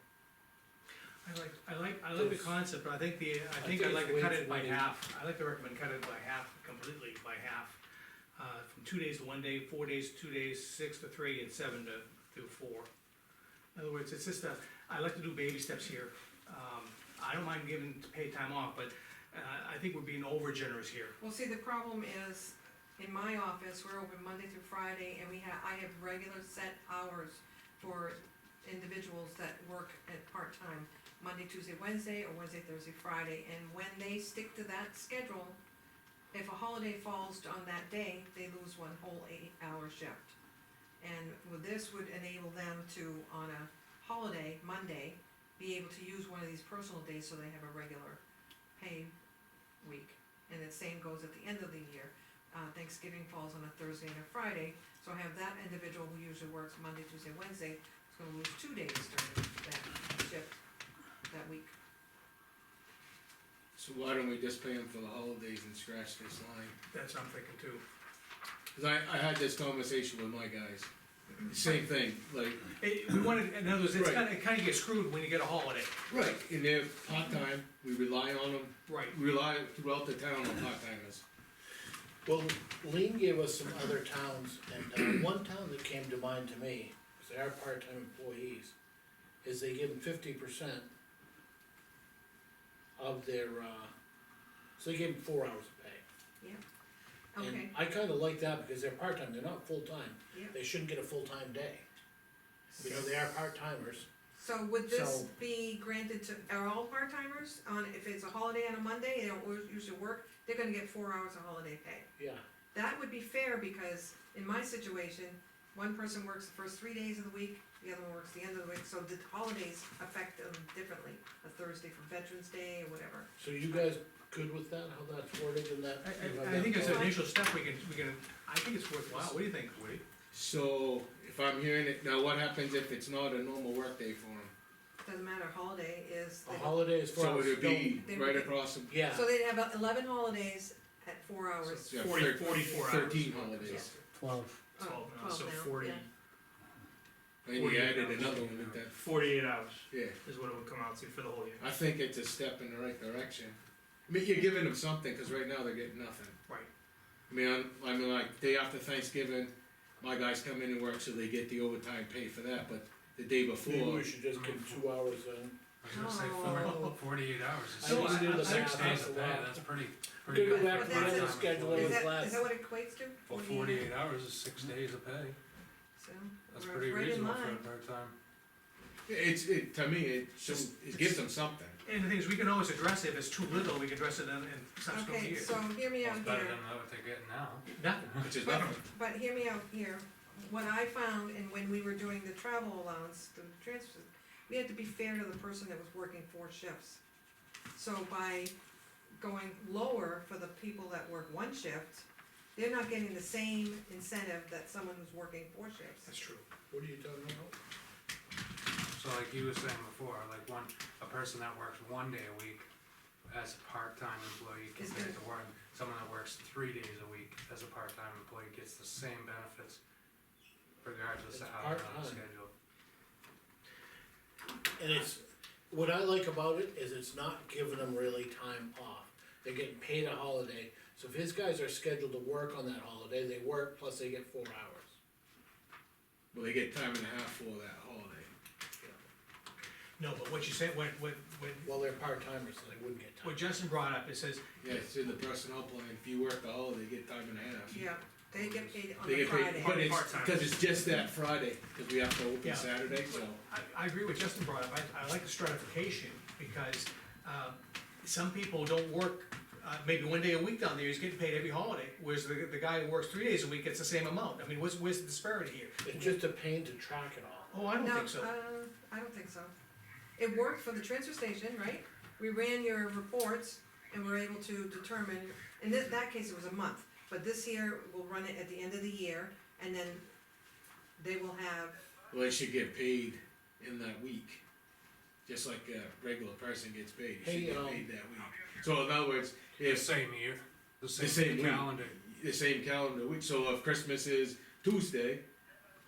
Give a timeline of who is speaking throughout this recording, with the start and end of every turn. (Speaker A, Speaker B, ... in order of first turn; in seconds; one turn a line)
Speaker A: 1.2-7.8
Speaker B: 2.1-2.6
Speaker B: 3.6-4.9
Speaker A: 8.4-12.9
Speaker A: 13.8-21.1
Speaker C: 21.2-35.6
Speaker C: 36.3-40.4
Speaker C: 41.0-48.2
Speaker C: 48.8-49.1
Speaker C: 49.8-60.6
Speaker C: 61.3-61.7
Speaker D: 63.8-66.8
Speaker A: 66.9-67.8
Speaker D: 68.8-70.9
Speaker D: 71.5-72.7
Speaker A: 72.8-75.9
Speaker D: 73.9-74.3
Speaker D: 76.1-81.2
Speaker A: 78.9-79.2
Speaker B: 82.3-88.7
Speaker B: 89.4-90.9
Speaker B: 93.0-93.9
Speaker B: 94.8-96.0
Speaker C: 97.3-97.7
Speaker B: 97.4-101.8
Speaker B: 102.8-104.1
Speaker C: 104.3-112.1
Speaker B: 104.9-105.3
Speaker B: 112.2-112.4
Speaker C: 112.7-123.3
Speaker B: 123.4-127.1
Speaker A: 126.0-130.0
Speaker C: 126.8-127.2
Speaker D: 130.3-134.5
Speaker C: 135.0-136.9
Speaker B: 136.5-138.0
Speaker D: 137.1-138.9
Speaker C: 138.0-143.1
Speaker B: 138.9-139.3
Speaker D: 141.9-143.9
Speaker E: 141.9-143.9
Speaker F: 144.2-144.6
Speaker E: 144.8-146.1
Speaker C: 144.8-146.1
Speaker D: 147.4-149.0
Speaker E: 147.5-148.3
Speaker A: 148.0-148.3
Speaker F: 148.3-148.7
Speaker E: 148.9-151.7
Speaker D: 149.9-150.2
Speaker D: 151.6-153.6
Speaker D: 154.1-156.4
Speaker D: 157.3-164.1
Speaker B: 163.6-165.6
Speaker F: 164.3-164.8
Speaker F: 165.8-172.0
Speaker C: 165.9-166.8
Speaker A: 166.4-166.9
Speaker B: 167.8-169.6
Speaker A: 167.8-169.2
Speaker B: 170.2-172.5
Speaker C: 170.4-173.9
Speaker F: 173.3-175.4
Speaker C: 176.0-177.7
Speaker F: 176.5-178.1
Speaker D: 179.1-181.8
Speaker A: 180.5-181.1
Speaker A: 181.8-185.6
Speaker C: 184.9-186.6
Speaker F: 186.0-188.3
Speaker A: 187.8-188.8
Speaker D: 188.2-188.8
Speaker C: 188.4-197.0
Speaker C: 197.8-198.5
Speaker C: 199.2-206.1
Speaker A: 206.1-206.4
Speaker B: 206.7-207.6
Speaker F: 208.9-212.7
Speaker F: 213.3-219.8
Speaker C: 214.8-215.2
Speaker F: 220.8-222.5
Speaker B: 221.3-222.2
Speaker B: 224.8-234.9
Speaker D: 236.3-238.3
Speaker A: 240.0-241.7
Speaker B: 241.7-243.4
Speaker A: 243.2-244.9
Speaker D: 244.6-253.4
Speaker C: 247.7-250.0
Speaker E: 249.6-250.5
Speaker A: 249.7-250.5
Speaker A: 252.4-266.2
Speaker B: 265.8-267.5
Speaker A: 267.5-268.3
Speaker C: 267.8-269.5
Speaker C: 270.2-280.1
Speaker C: 281.0-281.8
Speaker D: 282.1-284.4
Speaker D: 285.3-289.9
Speaker B: 287.2-287.9
Speaker F: 289.6-291.9
Speaker D: 291.0-295.2